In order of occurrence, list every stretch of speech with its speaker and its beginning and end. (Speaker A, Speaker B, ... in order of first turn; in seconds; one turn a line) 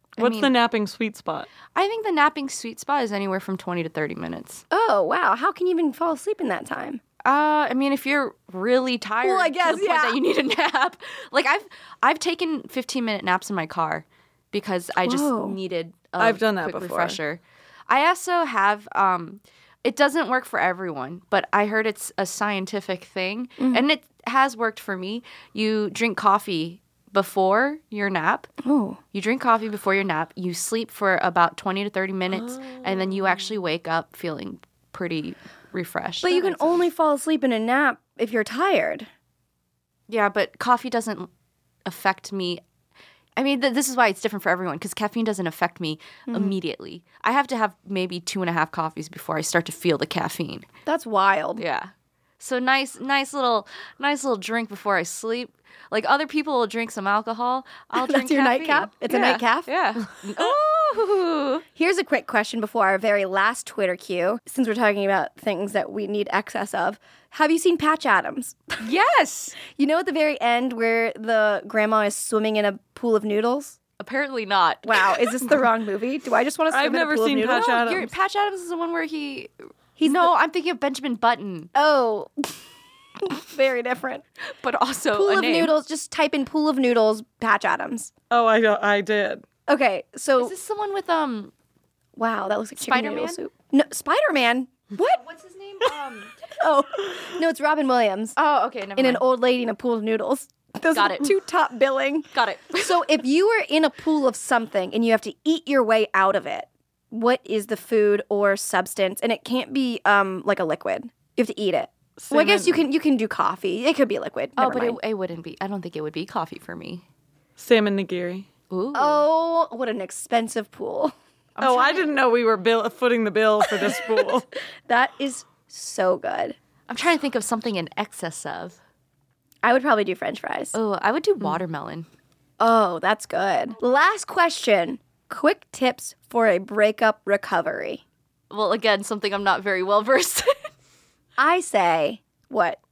Speaker A: 0.2-0.5
Speaker B: 0.2-1.5
Speaker A: 1.7-4.6
Speaker C: 4.7-7.0
Speaker A: 7.2-28.5
Speaker C: 9.2-10.2
Speaker C: 15.0-15.6
Speaker B: 16.2-17.2
Speaker C: 23.6-23.9
Speaker C: 28.6-29.0
Speaker A: 29.1-36.8
Speaker B: 32.5-33.4
Speaker C: 36.2-39.1
Speaker A: 40.1-41.3
Speaker A: 41.9-42.6
Speaker A: 43.4-50.7
Speaker C: 46.3-46.6
Speaker C: 50.9-51.6
Speaker A: 51.6-61.6
Speaker C: 58.0-59.7
Speaker C: 61.8-68.8
Speaker A: 68.8-69.5
Speaker C: 69.6-73.8
Speaker A: 74.0-75.5
Speaker C: 74.8-77.9
Speaker B: 76.7-78.1
Speaker A: 77.8-79.5
Speaker C: 80.0-80.3
Speaker A: 80.0-81.7
Speaker C: 81.8-82.6
Speaker C: 83.2-84.2
Speaker A: 84.5-85.7
Speaker C: 85.1-88.1
Speaker B: 88.3-89.4
Speaker C: 89.7-90.5
Speaker A: 90.4-91.5
Speaker C: 92.2-95.2
Speaker A: 92.8-93.4
Speaker A: 95.0-96.3
Speaker C: 96.6-98.3
Speaker A: 98.4-99.2
Speaker C: 99.0-115.0
Speaker A: 100.9-101.4
Speaker A: 102.3-103.1
Speaker B: 112.2-112.8
Speaker A: 114.6-117.0
Speaker B: 117.6-118.5
Speaker A: 118.7-119.3
Speaker C: 118.9-121.1
Speaker A: 121.6-122.2
Speaker B: 121.6-124.5
Speaker C: 123.8-124.3
Speaker C: 124.9-126.6
Speaker A: 126.9-128.8
Speaker C: 129.6-130.8
Speaker A: 130.7-132.1
Speaker C: 132.6-138.0
Speaker A: 138.5-140.6
Speaker C: 141.4-142.8